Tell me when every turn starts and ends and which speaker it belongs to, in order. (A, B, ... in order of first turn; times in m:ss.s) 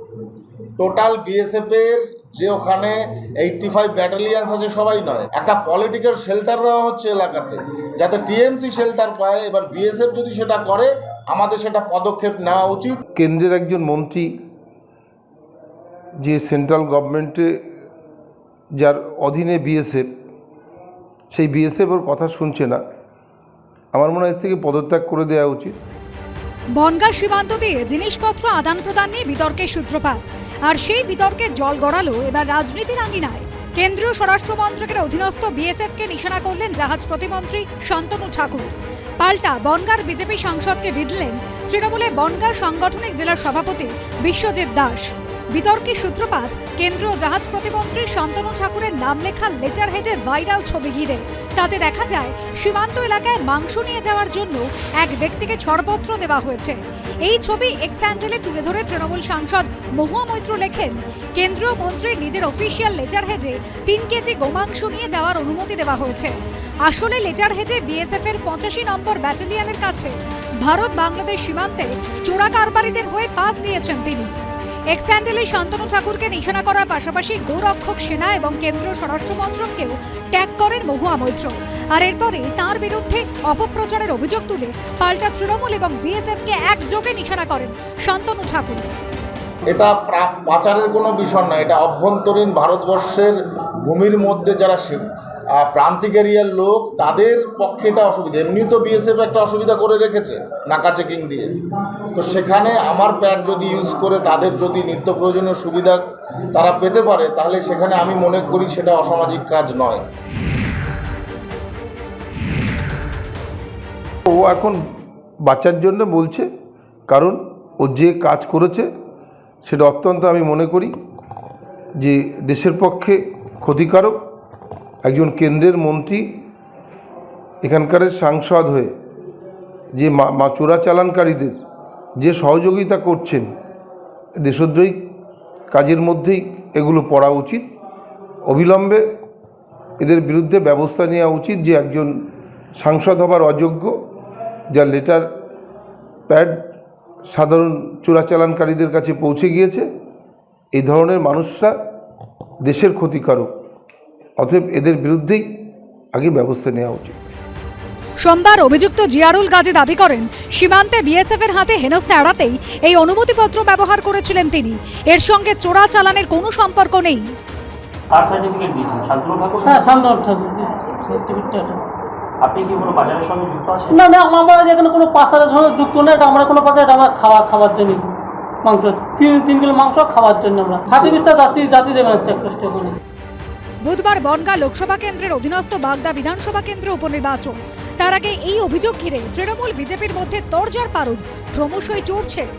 0:00.8-0:13.0 A
0:13.2-0:14.3 B
0:16.2-0:17.5 B
0:18.8-0:20.1 B
0:21.3-0:22.8 B
0:23.9-0:25.8 B
0:26.7-1:06.3 C
1:06.8-1:14.3 C
1:14.9-1:28.9 C
1:29.7-1:41.5 A
1:42.1-1:46.0 A
1:46.5-1:50.0 A
1:54.3-1:54.8 B
1:55.4-1:56.5 B
1:57.1-1:58.9 B
1:59.6-2:00.9 B
2:02.0-2:04.2 B
2:05.0-2:06.2 B
2:07.6-2:08.9 B
2:09.9-2:11.6 B
2:12.2-2:13.5 B
2:14.4-2:15.0 B
2:15.7-2:17.7 B
2:18.4-2:19.0 B
2:20.0-2:22.1 B
2:22.8-2:23.9 B
2:24.7-2:25.2 B
2:26.3-2:26.7 B
2:27.3-2:29.8 B
2:30.7-2:31.7 B
2:32.6-2:33.5 B
2:34.4-2:35.4 B
2:36.1-2:37.2 B
2:38.2-2:47.2 C
2:48.1-2:50.0 D
2:49.6-2:51.8 E
2:52.4-2:54.0 D
2:53.9-2:58.1 E
2:58.6-3:03.0 E
3:03.8-3:12.4 C